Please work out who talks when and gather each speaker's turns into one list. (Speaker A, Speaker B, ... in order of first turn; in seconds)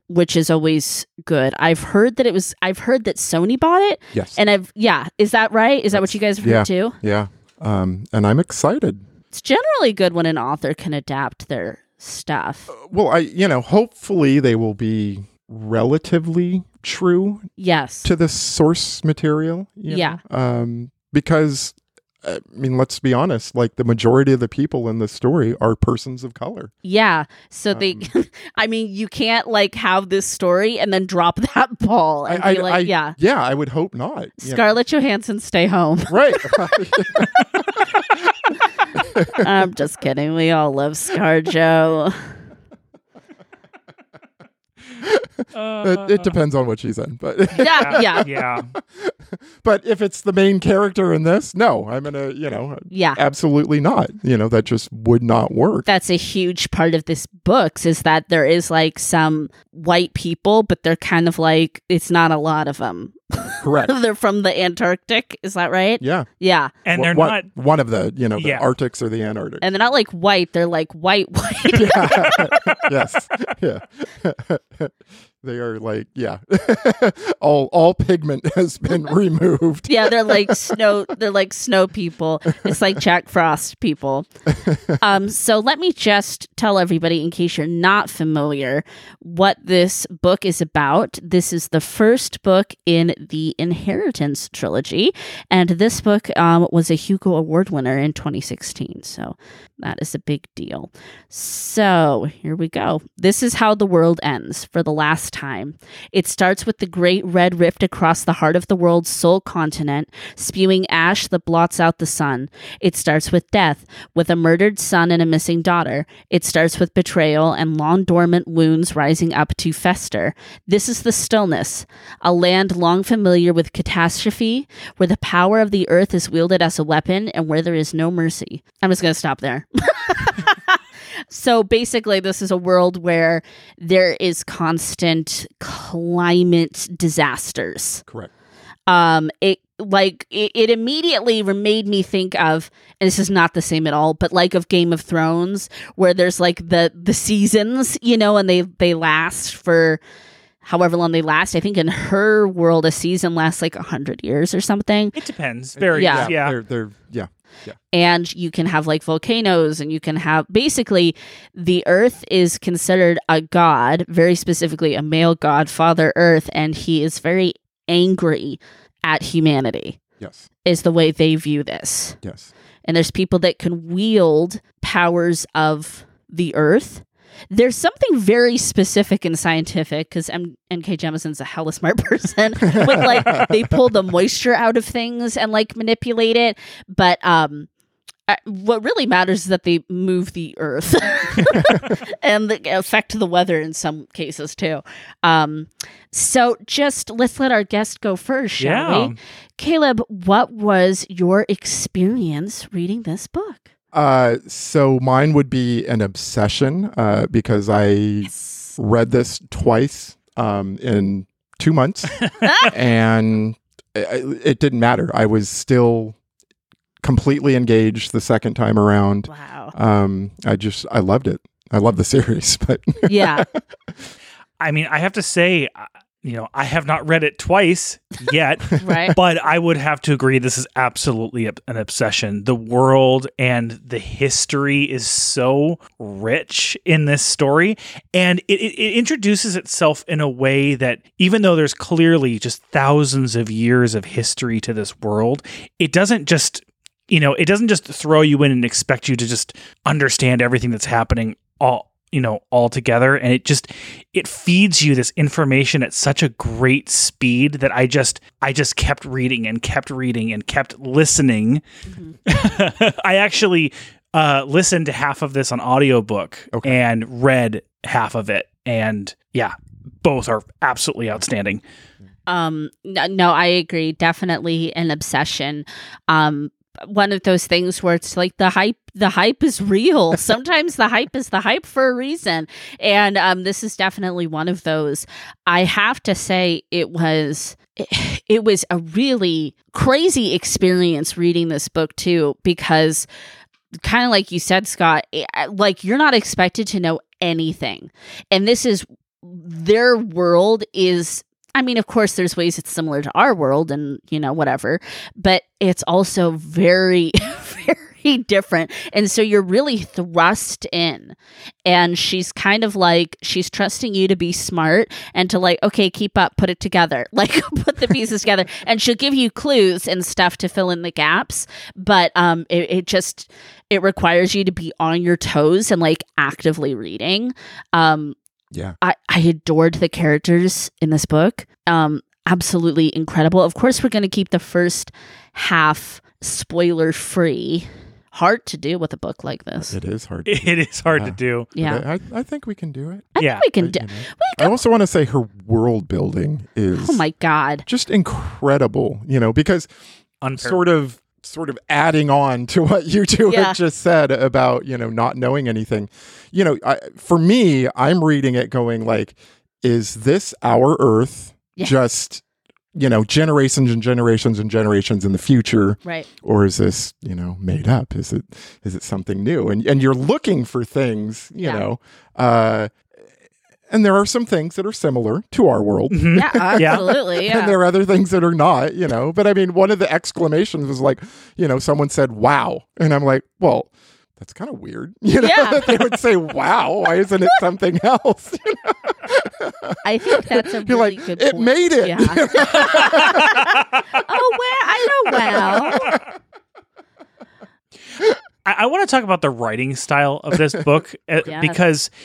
Speaker A: 0.1-7.0, 9.3-12.7, 17.6-18.1, 19.9-20.2, 26.8-33.2, 34.4-36.7, 39.3-42.2, 47.6-48.2, 52.9-53.2, 55.9-66.7, 69.6-72.9, 79.9-84.3, 85.0-138.0, 138.9-150.0, 150.6-155.2, 156.0-156.3, 157.9-170.0, 170.7-172.2, 172.8-187.7, 188.3-203.7, 208.5-208.7, 212.4-212.7, 219.3-219.7, 223.1-223.4, 228.8-229.2, 261.9-262.2, 272.3-293.1, 293.8-328.2, 328.8-339.8, 341.6-341.8, 343.2-344.6, 346.8-347.6, 353.3-353.6, 365.8-366.1, 376.1-377.6, 385.2-385.8, 389.8-396.0, 401.2-401.6
Speaker B: 4.1-4.4, 5.9-9.0, 12.7-17.5, 18.0-26.7, 27.7-28.1, 32.3-34.7, 36.1-38.3, 38.9-39.5, 45.0-55.9, 63.6-63.9, 66.0-66.3, 66.9-69.6, 71.7-80.8, 84.6-85.0, 155.8-157.8, 170.2-170.5, 172.2-172.5, 182.7-183.6, 191.5-191.8, 203.9-216.2, 217.0-223.6, 339.7-340.4, 340.9-347.1, 347.7-349.7, 350.4-362.2, 362.7-372.8, 373.7-393.5, 395.3-395.6
Speaker C: 45.5-46.4, 47.6-48.7, 66.8-67.5, 68.4-68.7, 155.2-156.6, 198.6-199.2, 224.6-261.6, 262.3-271.6, 340.3-341.5, 343.2-343.5, 350.2-350.6, 375.9-376.9, 398.4-401.9